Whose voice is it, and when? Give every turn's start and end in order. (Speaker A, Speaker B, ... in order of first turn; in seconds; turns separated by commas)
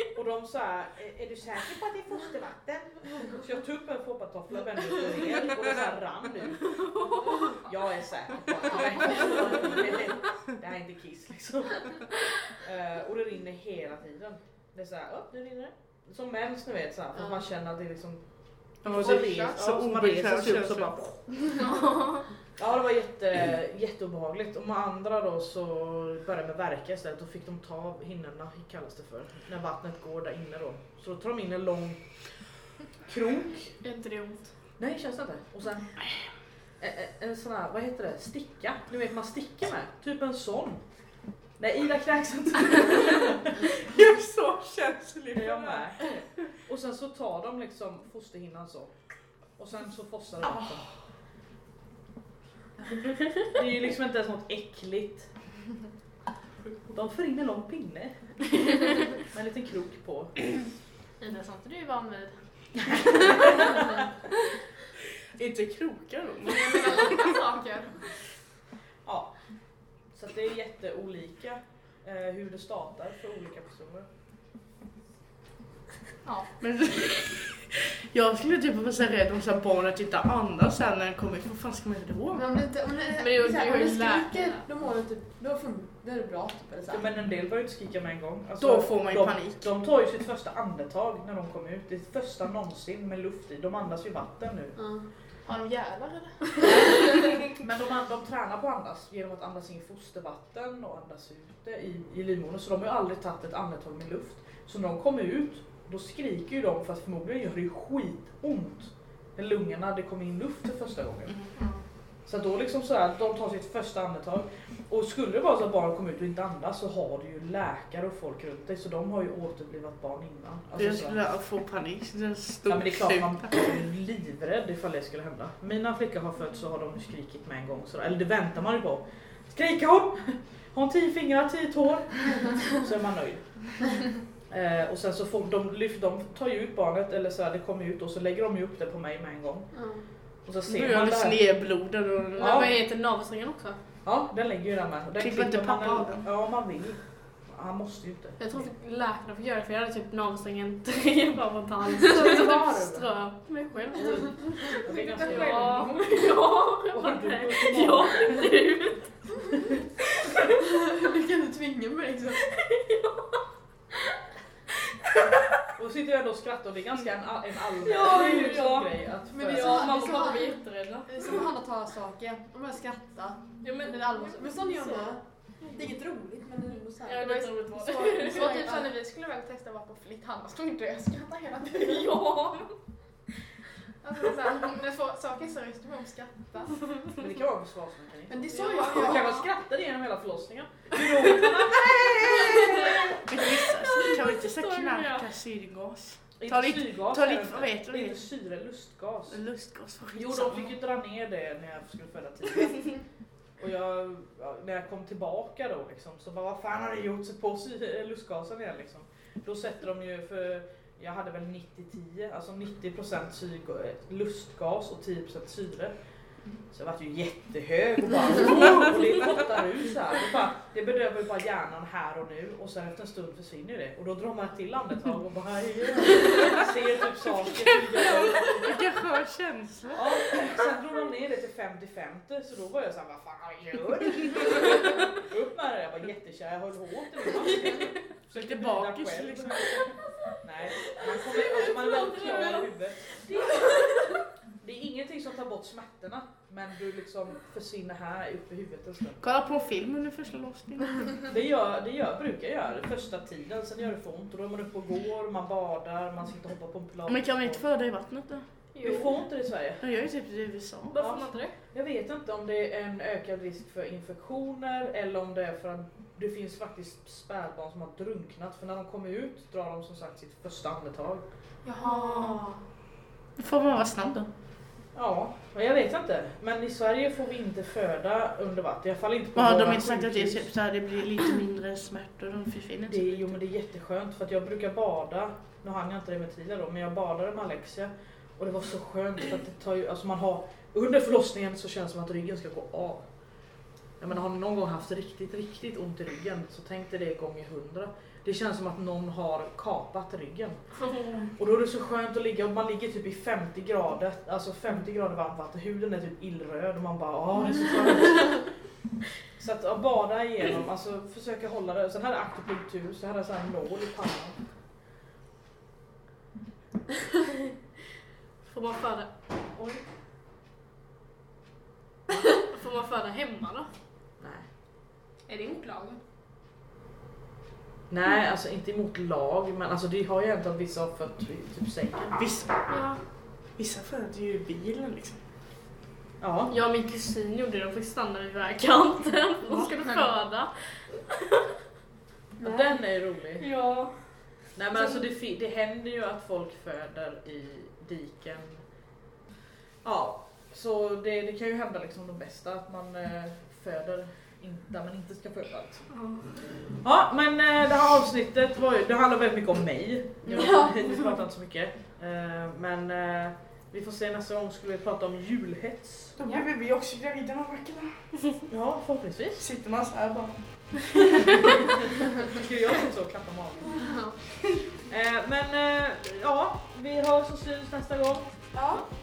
Speaker A: 0.1-6.8, Speaker B: 6.7-7.6, Speaker A: 7.7-18.2, Speaker A: 18.8-21.2, Speaker C: 18.8-21.0, Speaker D: 18.9-19.5, Speaker B: 21.8-22.2, Speaker A: 22.6-32.0, Speaker A: 33.0-33.8, Speaker B: 33.8-34.5, Speaker A: 34.8-36.1, Speaker A: 36.8-40.8, Speaker A: 41.6-43.7, Speaker C: 43.8-46.0, Speaker A: 45.3-48.9, Speaker A: 49.6-50.9, Speaker A: 53.5-55.3, Speaker A: 56.9-60.6, Speaker D: 61.2-62.4, Speaker A: 62.9-63.9, Speaker C: 65.3-67.4, Speaker D: 66.5-68.1, Speaker A: 69.0-69.3, Speaker A: 70.1-74.1, Speaker C: 76.6-82.5, Speaker E: 82.3-87.0, Speaker B: 83.2-84.6, Speaker A: 86.9-94.8, Speaker C: 88.6-89.7, Speaker E: 94.8-95.1, Speaker D: 95.5-97.2, Speaker A: 96.6-111.4, Speaker D: 111.6-111.8, Speaker A: 112.3-121.2, Speaker C: 120.8-123.8, Speaker A: 122.7-139.7, Speaker E: 139.7-140.1, Speaker A: 140.4-141.4, Speaker C: 140.7-142.7, Speaker B: 142.4-143.8, Speaker A: 142.4-142.7, Speaker A: 144.0-148.7, Speaker C: 145.2-146.3, Speaker B: 148.4-159.1, Speaker A: 152.1-153.1, Speaker A: 154.0-155.8, Speaker D: 154.4-156.2, Speaker A: 156.9-158.5, Speaker E: 160.6-162.5, Speaker B: 162.4-163.4, Speaker A: 165.8-169.9, Speaker B: 167.8-171.4, Speaker E: 169.3-178.9, Speaker B: 173.6-175.9, Speaker B: 177.0-178.7, Speaker D: 178.2-182.3, Speaker B: 181.7-182.8, Speaker D: 184.0-186.9, Speaker A: 187.2-193.2, Speaker E: 188.3-189.4, Speaker B: 188.6-189.0, Speaker D: 188.7-189.2, Speaker C: 193.3-198.2, Speaker B: 194.1-195.3, Speaker A: 196.4-199.4, Speaker C: 199.3-200.8, Speaker A: 200.2-203.0, Speaker A: 203.6-215.9, Speaker A: 216.7-228.7, Speaker C: 227.5-230.6, Speaker A: 229.9-244.1, Speaker C: 238.3-239.7, Speaker B: 240.9-244.2, Speaker A: 244.6-249.2, Speaker C: 249.2-251.1, Speaker A: 251.3-257.6, Speaker C: 257.1-258.5, Speaker B: 258.8-259.1, Speaker A: 258.8-259.8, Speaker C: 259.8-261.0, Speaker B: 260.9-261.6, Speaker A: 261.0-271.2, Speaker D: 271.6-272.5, Speaker E: 271.8-272.3, Speaker B: 271.8-272.4, Speaker C: 273.4-274.3, Speaker A: 274.9-280.5, Speaker C: 279.4-283.4, Speaker A: 282.9-293.0, Speaker A: 294.0-300.7, Speaker B: 300.8-301.3, Speaker A: 301.4-308.5, Speaker A: 309.3-314.4, Speaker B: 318.4-319.9, Speaker B: 322.2-323.7, Speaker A: 324.2-324.5, Speaker D: 325.3-326.0, Speaker A: 327.9-332.2, Speaker C: 332.2-332.6, Speaker B: 332.7-333.0, Speaker C: 333.6-335.2, Speaker A: 336.2-336.5, Speaker B: 336.5-341.0, Speaker D: 339.5-339.9, Speaker E: 339.7-340.0, Speaker E: 342.4-342.7, Speaker A: 342.4-343.5, Speaker B: 343.4-344.0, Speaker A: 344.6-348.6, Speaker B: 344.7-345.0, Speaker A: 349.8-355.9, Speaker B: 355.9-356.4, Speaker A: 356.5-366.2, Speaker E: 360.3-360.7, Speaker C: 366.2-368.1, Speaker A: 368.5-369.5, Speaker C: 369.4-370.4, Speaker A: 371.2-371.5, Speaker A: 372.3-373.8, Speaker A: 374.9-378.3, Speaker E: 378.5-378.8